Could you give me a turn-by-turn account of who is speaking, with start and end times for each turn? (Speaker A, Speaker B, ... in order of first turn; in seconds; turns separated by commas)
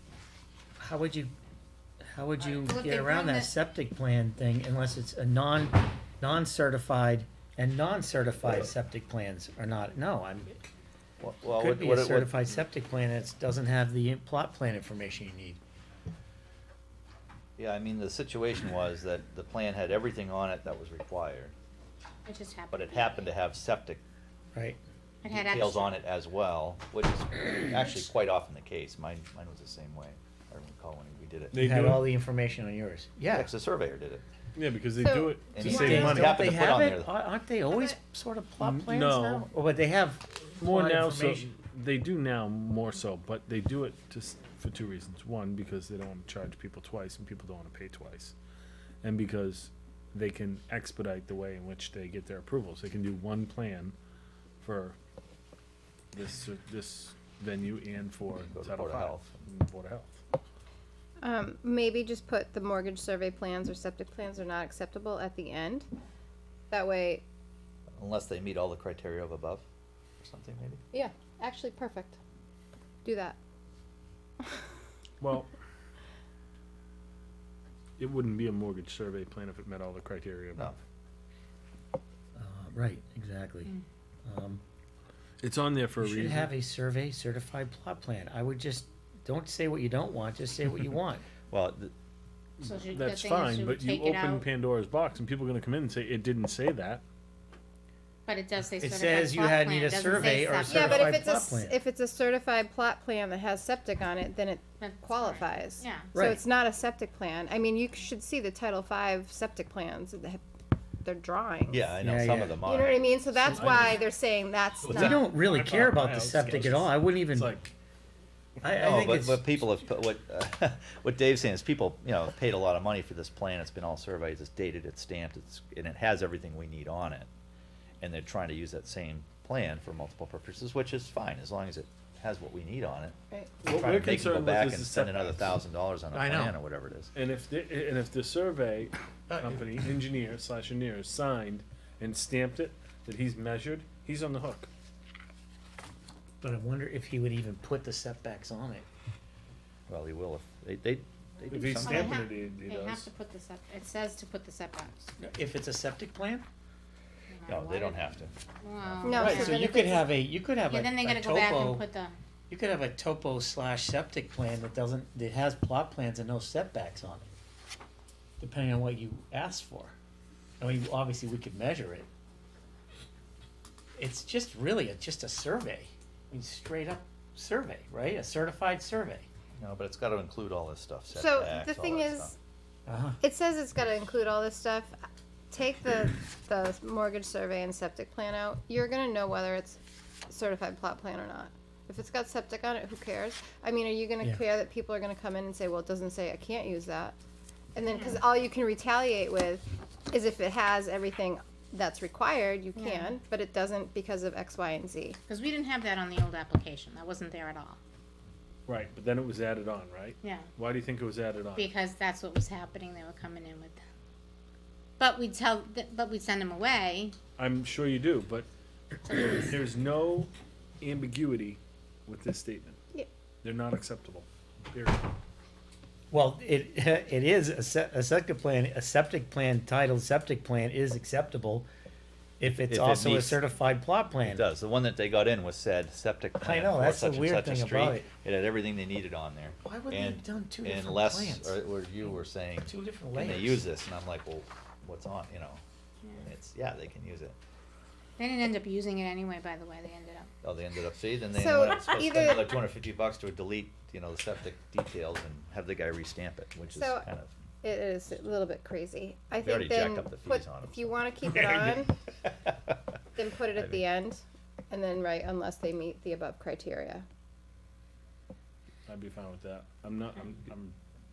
Speaker A: 0.8-1.3, Speaker A: 2.0-10.6, Speaker B: 2.4-3.5, Speaker C: 11.2-12.3, Speaker A: 11.6-15.6, Speaker C: 17.6-21.5, Speaker B: 22.2-23.3, Speaker C: 22.7-24.0, Speaker B: 25.2-25.9, Speaker C: 25.3-31.6, Speaker D: 31.5-32.1, Speaker A: 31.6-33.5, Speaker C: 33.3-34.2, Speaker D: 34.5-36.2, Speaker E: 35.0-36.3, Speaker C: 35.5-37.1, Speaker A: 35.6-41.5, Speaker D: 38.6-39.5, Speaker D: 40.6-48.4, Speaker D: 49.0-53.9, Speaker D: 54.6-55.0, Speaker D: 56.1-60.2, Speaker C: 58.5-59.5, Speaker E: 61.2-65.9, Speaker E: 66.7-67.2, Speaker C: 68.0-69.7, Speaker C: 70.2-70.8, Speaker E: 70.9-72.2, Speaker E: 73.0-73.4, Speaker D: 75.2-75.5, Speaker D: 78.0-80.7, Speaker A: 82.3-83.7, Speaker A: 84.2-84.6, Speaker D: 85.4-86.5, Speaker A: 86.0-91.2, Speaker C: 91.5-91.9, Speaker D: 92.6-97.0, Speaker B: 92.6-94.5, Speaker B: 98.2-101.2, Speaker A: 98.8-101.8, Speaker E: 100.6-110.4, Speaker B: 104.8-106.1, Speaker A: 106.1-106.4, Speaker E: 111.0-111.9, Speaker C: 111.7-113.2, Speaker A: 112.0-112.6, Speaker E: 112.6-115.3, Speaker D: 113.4-114.0, Speaker A: 114.9-117.6, Speaker D: 114.9-117.7, Speaker A: 118.6-119.6, Speaker C: 118.8-127.3, Speaker C: 128.0-133.2, Speaker D: 133.6-135.5, Speaker C: 133.7-137.1, Speaker A: 136.1-136.5, Speaker D: 137.1-144.7, Speaker A: 139.3-139.6, Speaker A: 146.4-148.8, Speaker C: 149.9-152.2, Speaker D: 151.5-153.1, Speaker B: 151.8-155.1, Speaker A: 155.2-156.4, Speaker B: 157.3-158.0, Speaker C: 157.5-158.3, Speaker B: 158.6-159.7, Speaker E: 159.0-160.1, Speaker A: 159.1-161.8, Speaker B: 160.7-162.2, Speaker A: 162.5-167.2, Speaker A: 168.4-169.9, Speaker A: 170.6-172.1, Speaker A: 173.9-179.3, Speaker C: 179.6-182.3, Speaker E: 181.1-182.3, Speaker A: 182.9-183.2, Speaker E: 183.2-185.0, Speaker E: 185.5-197.2, Speaker E: 197.7-205.2, Speaker B: 197.9-198.2, Speaker B: 202.7-203.2, Speaker B: 205.3-207.8, Speaker D: 208.7-211.7, Speaker B: 210.2-210.5, Speaker B: 211.5-213.8, Speaker B: 215.0-217.2, Speaker D: 217.4-218.4, Speaker B: 219.0-219.5, Speaker D: 219.3-222.8, Speaker D: 223.4-225.1, Speaker A: 226.1-231.7, Speaker A: 232.4-234.4, Speaker C: 232.5-233.4, Speaker C: 234.2-245.6, Speaker A: 236.4-238.1, Speaker A: 239.6-243.6, Speaker C: 246.1-247.3, Speaker B: 248.2-250.3, Speaker C: 250.4-257.3, Speaker E: 251.3-252.6, Speaker E: 256.7-257.1, Speaker E: 257.6-261.9, Speaker C: 259.4-260.9, Speaker E: 263.1-267.0, Speaker C: 263.6-263.8, Speaker D: 268.9-270.8